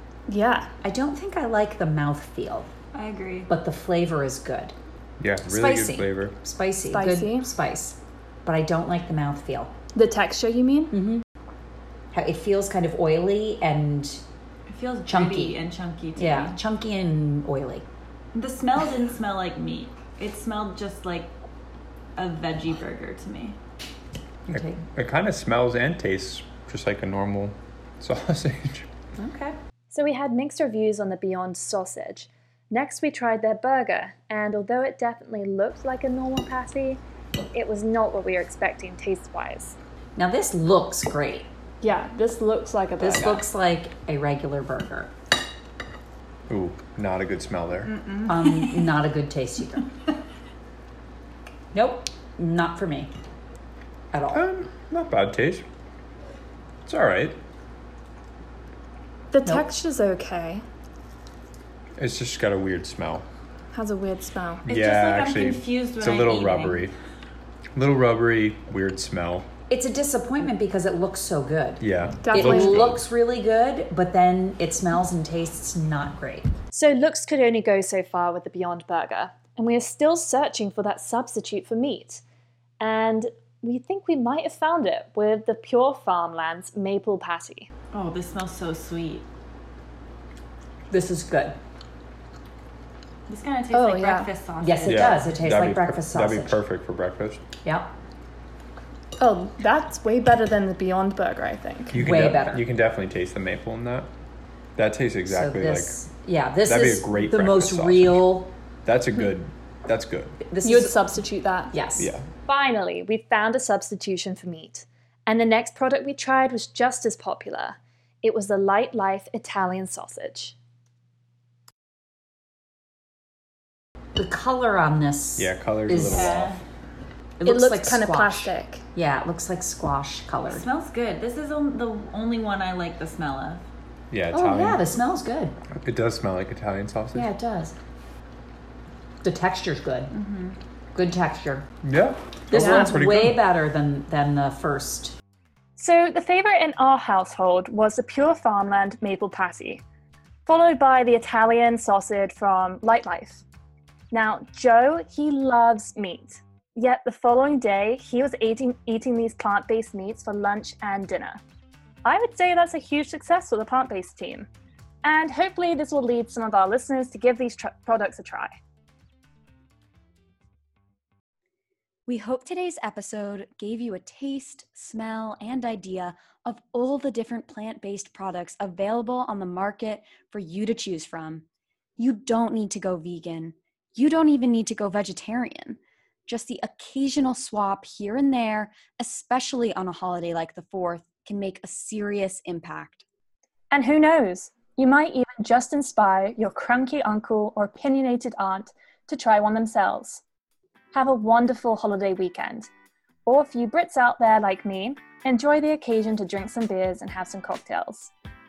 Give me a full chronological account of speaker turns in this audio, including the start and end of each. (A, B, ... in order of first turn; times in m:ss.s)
0:00.3-0:00.7 A
0:00.8-0:02.7 B
0:02.9-0:03.5 C
0:03.5-0:04.7 B
0:05.2-0:06.4 D
0:05.5-0:09.7 B
0:06.9-0:07.5 A
0:09.9-0:10.9 A
0:10.9-0:11.2 B
0:12.1-0:14.2 B
0:14.7-0:16.6 C
0:15.1-0:15.6 B
0:16.2-0:17.9 B
0:18.3-0:21.3 C
0:22.2-0:23.6 C
0:24.5-0:28.9 D
0:24.5-0:24.8 B
0:29.2-0:29.6 B
0:29.9-0:37.0 A
0:37.5-0:39.8 A
0:40.2-0:41.5 B
0:41.8-0:43.4 A
0:43.0-0:45.1 B
0:46.5-0:47.9 D
0:48.3-0:49.8 B
0:51.7-0:53.1 B
0:54.1-0:54.4 B
0:54.3-0:55.6 D
0:56.9-0:57.4 D
0:59.3-1:00.6 A
1:02.0-1:03.3 D
1:03.7-1:04.6 A
1:04.6-1:06.9 D
1:04.7-1:06.9 C
1:07.8-1:09.5 D
1:09.7-1:16.5 B
1:11.8-1:13.1 D
1:12.2-1:12.7 A
1:16.7-1:22.2 A
1:22.8-1:27.7 A
1:27.9-1:29.2 C
1:30.9-1:31.6 B
1:33.3-1:35.2 C
1:33.8-1:34.3 A
1:34.6-1:36.6 B
1:34.9-1:37.4 D
1:37.6-1:37.9 B
1:39.2-1:41.9 A
1:41.9-1:44.1 D
1:42.0-1:42.6 B
1:44.8-1:46.0 D
1:45.3-1:48.5 B
1:46.6-1:48.3 D
1:48.8-1:50.4 D
1:50.4-1:51.0 B
1:50.6-1:51.8 A
1:51.7-1:52.1 B
1:51.9-1:52.3 D
1:52.4-2:00.6 A
2:04.2-2:06.5 B
2:05.4-2:06.5 D
2:06.0-2:06.6 C
2:07.4-2:10.7 B
2:07.4-2:08.8 A
2:10.4-2:13.6 C
2:14.1-2:15.0 D
2:14.3-2:15.6 B
2:15.8-2:17.3 D
2:17.1-2:17.8 B
2:19.2-2:20.1 B
2:20.2-2:20.5 E
2:21.0-2:21.7 B
2:21.8-2:23.4 D
2:22.5-2:25.2 B
2:25.8-2:29.8 A
2:30.5-2:33.4 A
2:34.1-2:41.4 A
2:42.0-2:44.5 A
2:45.0-2:48.6 A
2:52.1-3:01.5 E
3:02.0-3:13.0 E
3:13.7-3:20.2 A
3:20.9-3:22.7 A
3:23.3-3:28.1 A